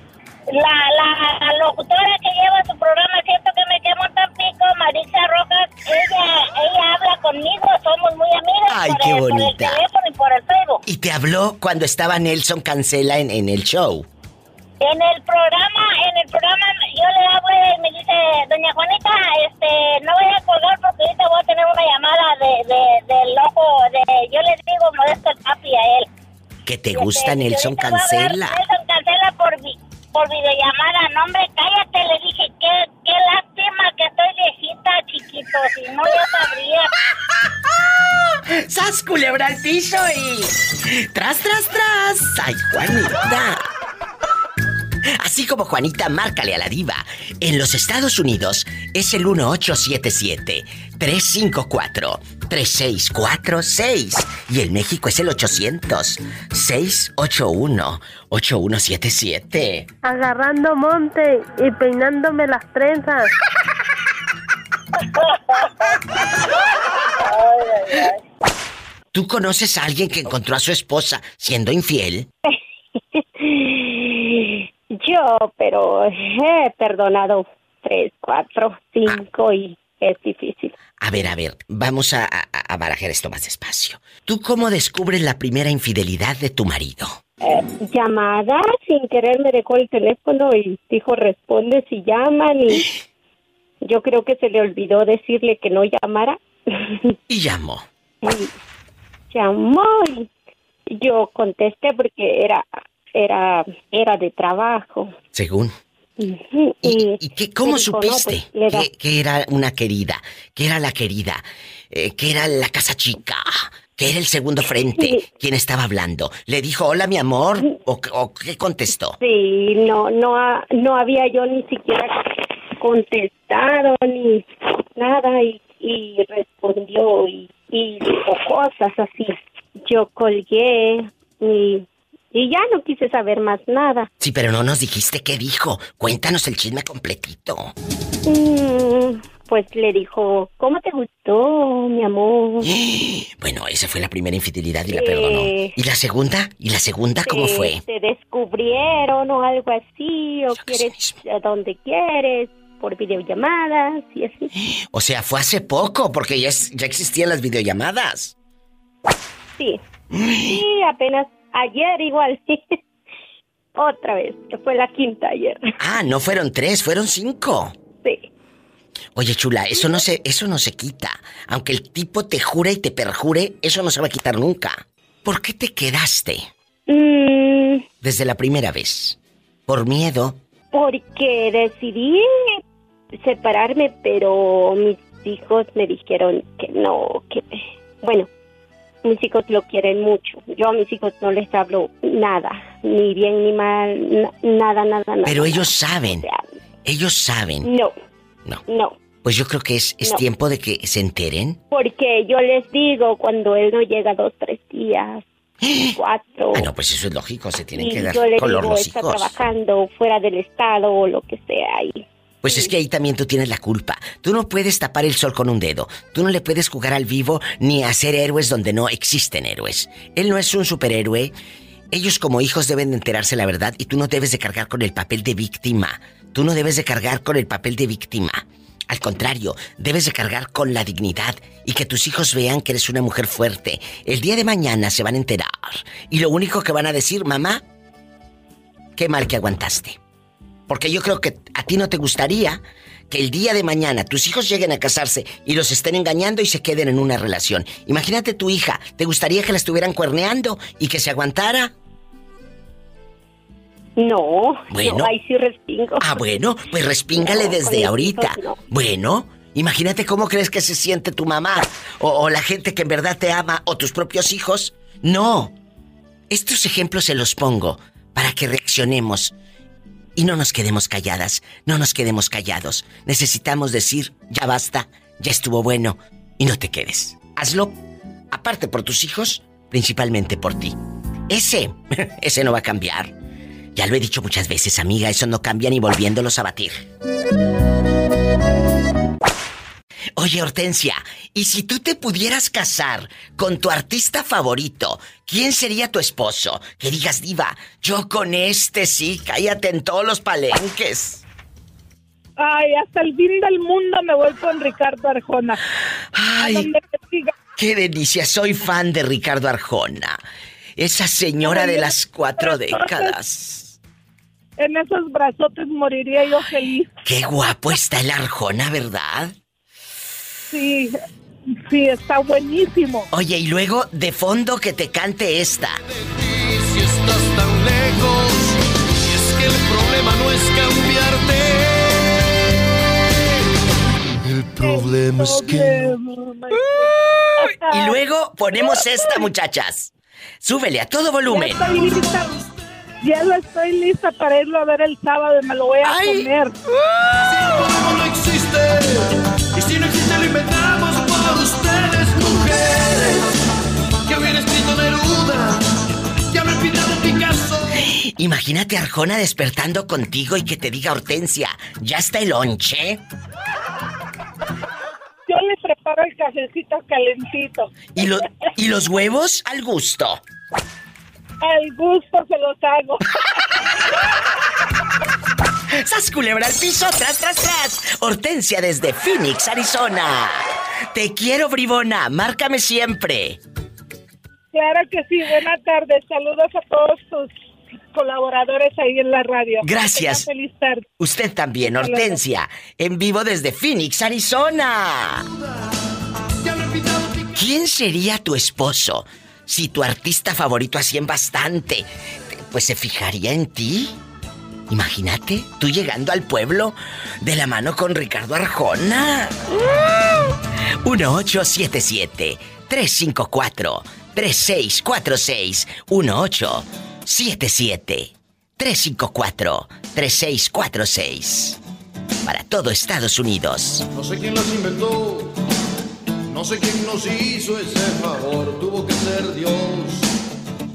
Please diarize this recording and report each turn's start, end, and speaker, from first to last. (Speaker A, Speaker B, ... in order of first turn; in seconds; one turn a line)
Speaker A: 0.5-10.8
Speaker B: 8.7-9.8
Speaker B: 10.8-14.1
Speaker A: 14.8-26.1
Speaker B: 26.6-28.6
Speaker A: 26.9-36.9
Speaker B: 38.3-43.6
Speaker B: 45.2-59.9
Speaker C: 60.0-63.3
Speaker A: 65.5-65.9
Speaker A: 67.2-68.2
Speaker B: 69.1-72.3
Speaker D: 73.1-80.7
Speaker B: 81.0-87.2
Speaker D: 87.4-92.8
Speaker D: 93.8-97.1
Speaker B: 97.3-97.8
Speaker D: 98.2-98.5
Speaker D: 99.3-100.3
Speaker D: 100.9-105.1
Speaker B: 105.3-105.7
Speaker D: 106.2-108.9
Speaker B: 106.8-119.2
Speaker D: 115.0-115.2
Speaker D: 119.2-122.2
Speaker D: 122.8-134.1
Speaker B: 134.2-137.7
Speaker D: 138.2-142.7
Speaker B: 142.6-147.8
Speaker D: 144.9-145.7
Speaker D: 147.2-154.5
Speaker B: 150.5-151.2
Speaker B: 154.8-158.3
Speaker B: 160.1-160.6
Speaker D: 160.5-162.8
Speaker D: 163.8-165.6
Speaker B: 165.8-167.7
Speaker B: 169.1-176.5
Speaker D: 176.9-177.8
Speaker B: 178.0-180.4
Speaker D: 180.7-182.2
Speaker D: 183.1-188.3
Speaker D: 189.0-196.4
Speaker B: 195.2-196.2
Speaker B: 196.8-197.7
Speaker D: 197.6-197.9
Speaker D: 198.7-198.9
Speaker B: 199.2-201.6
Speaker D: 201.7-205.2
Speaker B: 205.6-205.9
Speaker D: 205.9-206.7
Speaker B: 206.5-209.4
Speaker D: 207.7-212.7
Speaker B: 212.4-221.3
Speaker B: 221.9-237.6
Speaker B: 238.9-240.0
Speaker B: 240.7-251.7
Speaker D: 254.0-256.1
Speaker B: 254.7-255.1
Speaker B: 256.0-265.5
Speaker D: 257.1-258.6
Speaker B: 266.3-269.3
Speaker B: 270.1-277.8
Speaker B: 278.3-280.8
Speaker B: 281.3-283.1
Speaker B: 283.7-286.9
Speaker B: 290.1-301.2
Speaker E: 302.4-305.6
Speaker B: 306.1-306.7
Speaker E: 306.4-307.3
Speaker B: 307.6-310.2
Speaker B: 310.8-313.8
Speaker E: 311.4-313.1
Speaker E: 314.6-316.9
Speaker B: 317.0-319.3
Speaker E: 320.5-320.9
Speaker E: 321.5-323.1
Speaker B: 323.1-325.8
Speaker F: 326.1-332.1
Speaker F: 334.2-336.6
Speaker E: 334.6-338.0
Speaker B: 337.7-341.8
Speaker E: 338.7-339.2
Speaker E: 341.3-342.4
Speaker E: 343.0-346.5
Speaker B: 345.8-347.1
Speaker F: 347.4-353.3
Speaker F: 354.1-355.7
Speaker F: 356.3-357.8
Speaker B: 357.8-363.0
Speaker E: 365.3-368.2
Speaker B: 367.9-370.2
Speaker E: 371.4-373.0
Speaker B: 375.7-383.4
Speaker E: 384.5-387.3
Speaker E: 387.9-390.8
Speaker B: 389.6-390.3
Speaker B: 391.0-395.2
Speaker E: 391.6-392.2
Speaker F: 396.4-397.3
Speaker B: 397.3-403.9
Speaker B: 404.7-410.2
Speaker B: 410.8-421.6
Speaker B: 422.2-423.9
Speaker F: 423.9-425.3
Speaker F: 426.3-430.1